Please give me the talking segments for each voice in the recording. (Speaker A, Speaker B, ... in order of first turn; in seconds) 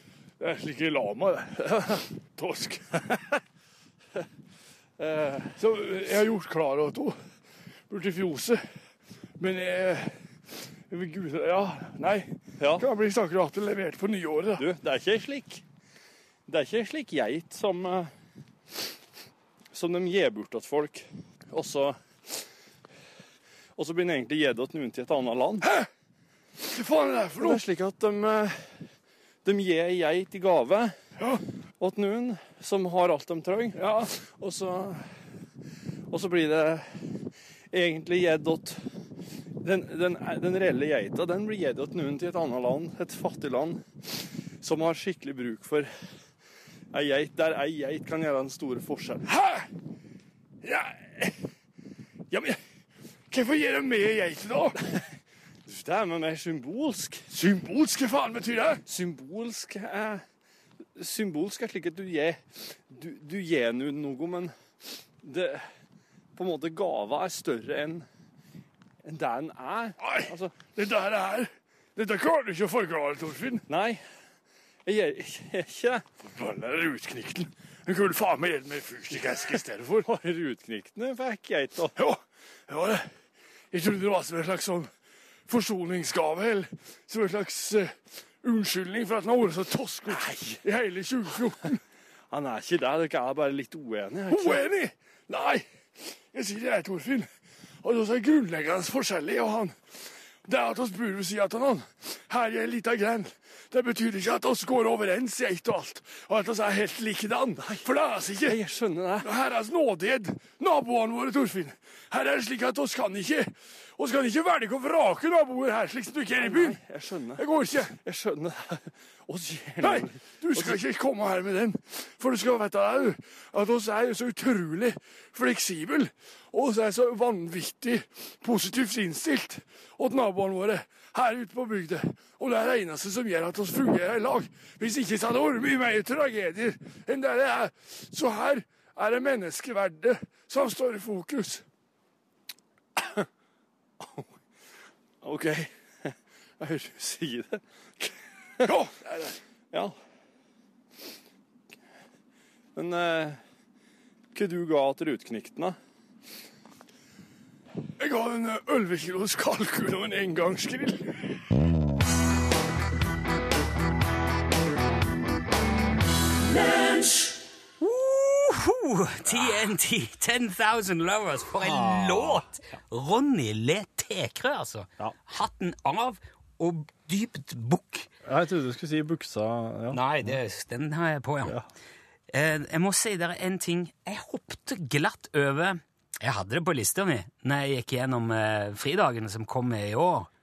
Speaker A: 0.4-3.2, 5.5-7.2, 7.9-8.6, 9.4-10.1, 10.9-14.7, 25.6-25.9, 26.6-27.6, 33.7-34.1, 49.2-49.7, 50.6-51.3, 52.3-52.5, 53.3-54.8, 57.3-58.8, 70.0-73.6, 76.2-80.1, 82.0-83.0, 83.7-84.9, 85.5-91.8, 94.3-95.6, 96.3-97.3, 97.8-99.8, 100.5-108.6, 109.2-116.8, 117.3-118.0, 119.8-141.6, 148.6-149.4, 158.0-161.3
Speaker B: 5.0-5.5, 12.6-12.8, 14.6-15.6, 16.5-18.1, 19.7-22.0, 23.8-25.7, 27.4-28.7, 29.4-30.9, 31.8-35.0, 36.1-37.0, 37.7-38.8, 39.6-43.8, 44.6-45.9, 46.9-49.3, 55.6-57.3, 58.9-60.2, 61.0-64.5, 65.2-65.6, 66.3-68.0, 69.0-70.5, 73.7-74.0, 74.8-76.0, 80.0-82.0, 90.1-90.6, 92.3-94.6, 107.6-107.8, 108.4-109.3, 116.4-117.4, 118.0-120.8, 145.2-145.7, 146.6-147.6, 152.7-153.4, 154.3-155.8, 171.6-172.4, 178.2-180.4
Speaker C: 167.8-178.1, 179.9-181.6, 182.3-190.3